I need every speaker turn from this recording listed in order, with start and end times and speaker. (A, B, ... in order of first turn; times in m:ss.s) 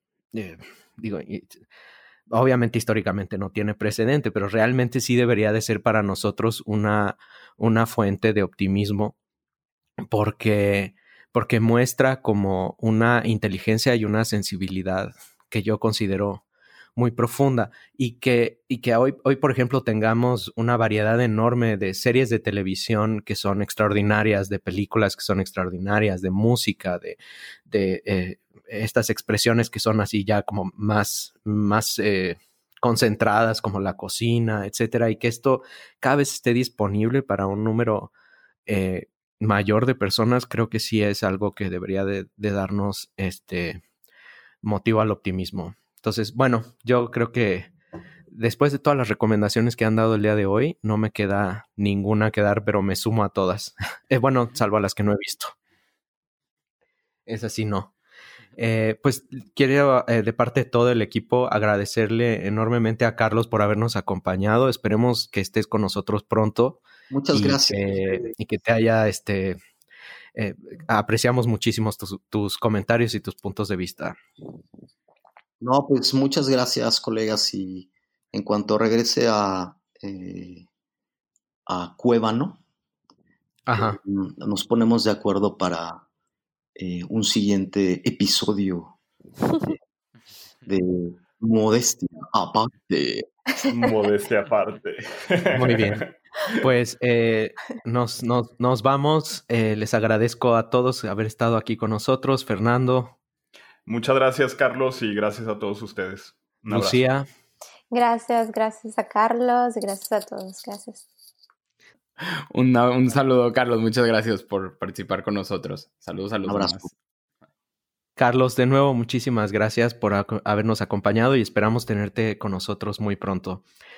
0:00.3-0:01.6 A
0:02.3-0:09.2 A
0:10.1-0:16.4 A
0:17.0-0:38.1 A
0:38.7-0:43.8 A
0:44.6-0:47.7 A
0:48.3-0:55.5 A
0:57.3-0:57.9 A
0:58.6-1:09.6 A
1:07.1-1:08.3 B
1:10.4-1:14.2 A
1:15.6-1:20.6 B
1:21.7-1:22.6 B
1:23.7-1:24.0 A
1:23.8-1:26.0 B
1:26.8-1:29.0 B
1:30.7-1:33.3 B
1:33.6-1:33.8 C
1:33.7-1:36.6 D
1:35.6-1:43.2 A
1:43.8-1:47.0 D
1:46.7-1:47.3 A
1:47.9-1:51.1 C
1:52.2-1:56.9 E
1:56.4-1:56.9 B
1:58.2-2:03.6 A